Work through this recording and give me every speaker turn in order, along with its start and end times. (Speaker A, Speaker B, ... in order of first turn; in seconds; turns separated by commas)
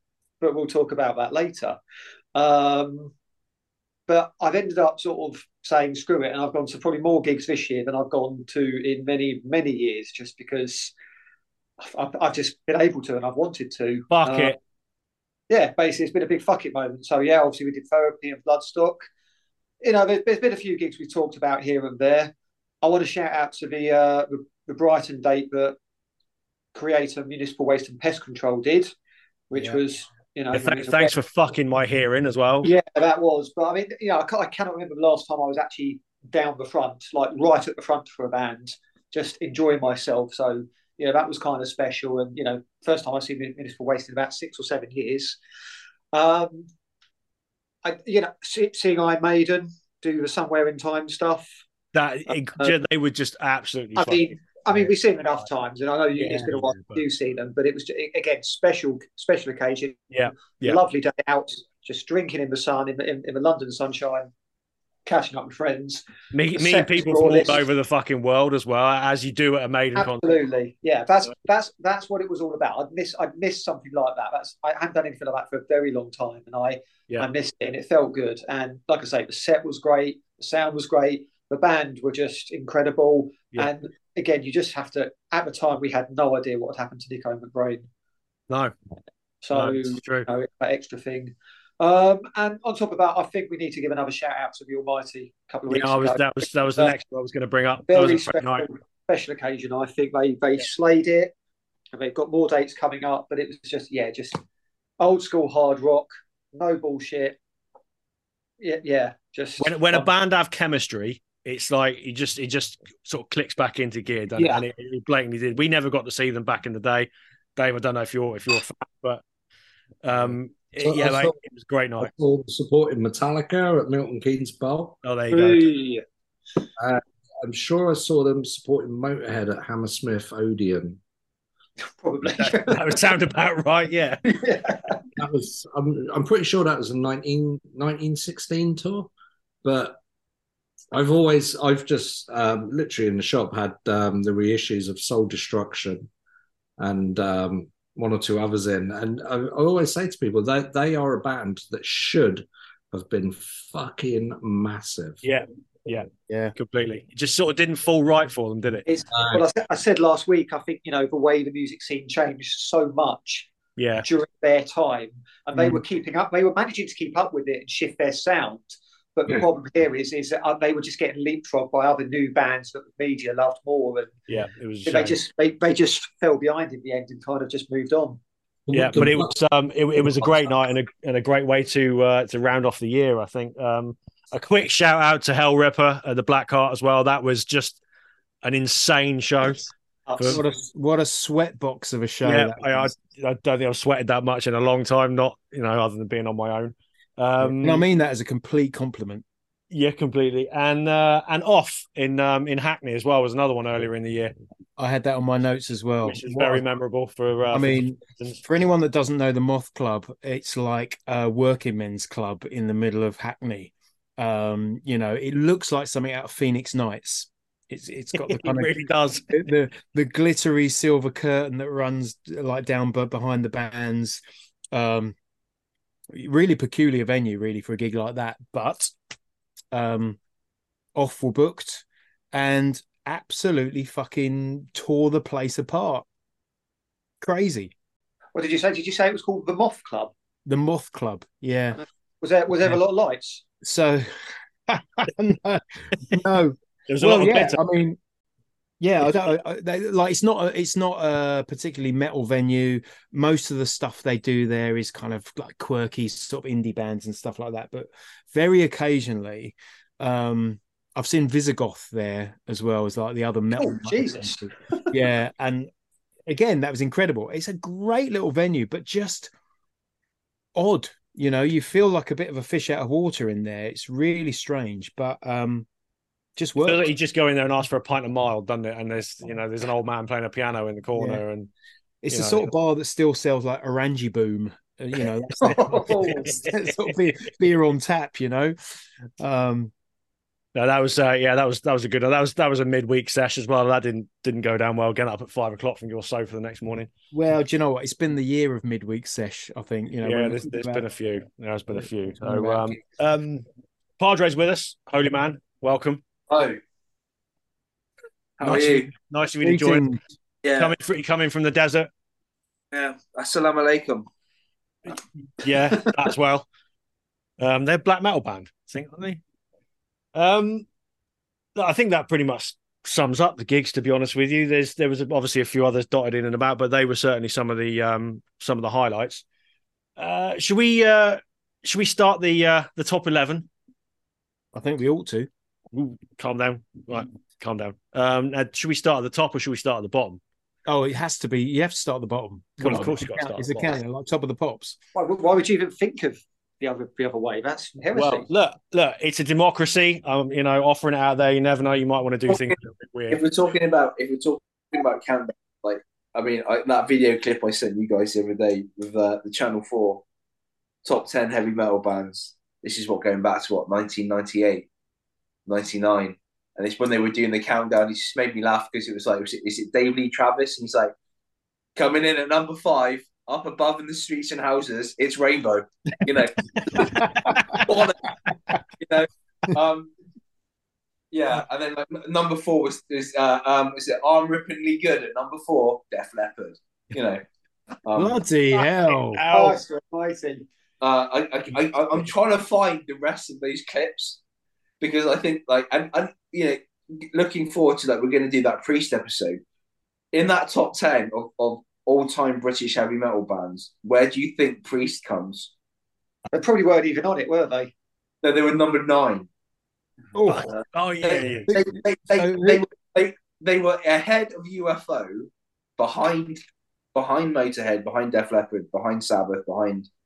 Speaker A: 0.4-1.8, Speaker A: 2.4-3.1, Speaker A: 4.1-10.9, Speaker A: 11.8-14.6, Speaker B: 14.1-14.6, Speaker A: 15.5-19.0, Speaker A: 19.8-25.8, Speaker A: 26.7-28.9, Speaker A: 29.5-31.1, Speaker B: 30.5-32.7, Speaker A: 32.6-45.4, Speaker A: 46.1-46.7, Speaker A: 47.8-51.5, Speaker B: 51.9-54.9, Speaker A: 54.0-64.3, Speaker B: 56.2-57.0, Speaker B: 60.1-60.8, Speaker A: 65.1-66.0, Speaker B: 66.3-70.4, Speaker A: 66.5-67.7, Speaker A: 70.0-87.9, Speaker A: 89.4-96.9, Speaker B: 89.5-90.3, Speaker B: 95.7-98.7, Speaker A: 97.9-101.3, Speaker A: 101.9-104.4, Speaker A: 105.0-107.4, Speaker A: 108.6-110.1, Speaker B: 109.6-119.2, Speaker A: 114.4-114.7, Speaker B: 120.0-122.1, Speaker C: 120.2-121.4, Speaker C: 122.0-125.0, Speaker B: 125.0-125.7, Speaker D: 125.3-126.0, Speaker C: 126.8-131.0, Speaker A: 132.0-133.0, Speaker B: 132.4-134.2, Speaker A: 134.2-135.0, Speaker C: 135.2-139.1, Speaker C: 139.6-140.0, Speaker C: 140.9-146.1, Speaker C: 146.8-155.2, Speaker B: 155.2-158.9, Speaker E: 156.3-156.5, Speaker A: 158.9-163.5, Speaker C: 159.1-159.5, Speaker B: 163.8-164.1, Speaker A: 164.0-174.2, Speaker B: 174.3-175.2, Speaker A: 174.9-178.2, Speaker C: 178.7-179.3, Speaker B: 178.7-187.8, Speaker C: 180.0-180.3, Speaker B: 188.4-190.4, Speaker A: 190.1-190.4, Speaker E: 190.2-192.9, Speaker B: 192.2-197.8, Speaker E: 197.4-199.2, Speaker B: 199.7-204.3, Speaker E: 204.8-206.6, Speaker B: 206.1-208.4, Speaker E: 207.5-218.7, Speaker B: 218.2-219.3, Speaker E: 219.3-224.2, Speaker E: 224.7-225.2, Speaker E: 226.1-228.9, Speaker E: 229.7-230.2, Speaker E: 230.9-236.1, Speaker E: 237.2-237.7, Speaker A: 238.3-240.1, Speaker E: 240.5-241.8, Speaker A: 241.8-243.4, Speaker E: 243.6-248.0, Speaker B: 246.9-247.7, Speaker E: 248.8-265.7, Speaker A: 263.6-264.9, Speaker E: 266.3-269.3, Speaker E: 270.6-275.7, Speaker E: 276.4-276.9, Speaker B: 276.6-281.5, Speaker E: 280.9-281.2, Speaker E: 282.0-288.6, Speaker B: 282.1-282.5, Speaker A: 285.4-286.3, Speaker B: 286.0-286.9, Speaker E: 289.2-289.7, Speaker B: 290.6-296.9, Speaker E: 297.1-300.9, Speaker B: 300.0-303.4, Speaker E: 302.2-302.8, Speaker B: 304.0-306.0, Speaker D: 306.3-306.6, Speaker D: 308.4-308.9, Speaker B: 308.4-309.9, Speaker E: 308.5-308.7, Speaker E: 309.4-310.0, Speaker D: 310.4-310.7, Speaker B: 310.5-311.9, Speaker D: 312.7-314.1, Speaker B: 314.9-316.5, Speaker B: 317.4-319.2, Speaker B: 320.1-320.7, Speaker B: 321.6-329.2, Speaker B: 330.0-333.5, Speaker E: 334.5-335.3, Speaker B: 335.7-340.2, Speaker E: 340.7-344.8, Speaker B: 342.6-343.7, Speaker A: 344.9-348.3, Speaker B: 347.9-353.2, Speaker D: 353.1-360.0, Speaker D: 360.8-364.7, Speaker D: 365.5-370.9, Speaker D: 371.8-378.0, Speaker B: 376.8-377.6, Speaker E: 377.0-377.6, Speaker D: 378.8-379.9, Speaker D: 381.1-387.2, Speaker D: 387.9-388.2, Speaker E: 387.9-389.2, Speaker B: 388.5-389.6, Speaker A: 389.3-390.5, Speaker D: 390.8-394.2, Speaker D: 394.8-399.4, Speaker D: 400.1-405.5, Speaker A: 406.3-407.7, Speaker D: 408.2-409.3, Speaker E: 410.1-410.5, Speaker B: 410.3-411.5, Speaker D: 411.1-416.4, Speaker E: 411.5-412.6, Speaker D: 416.9-419.9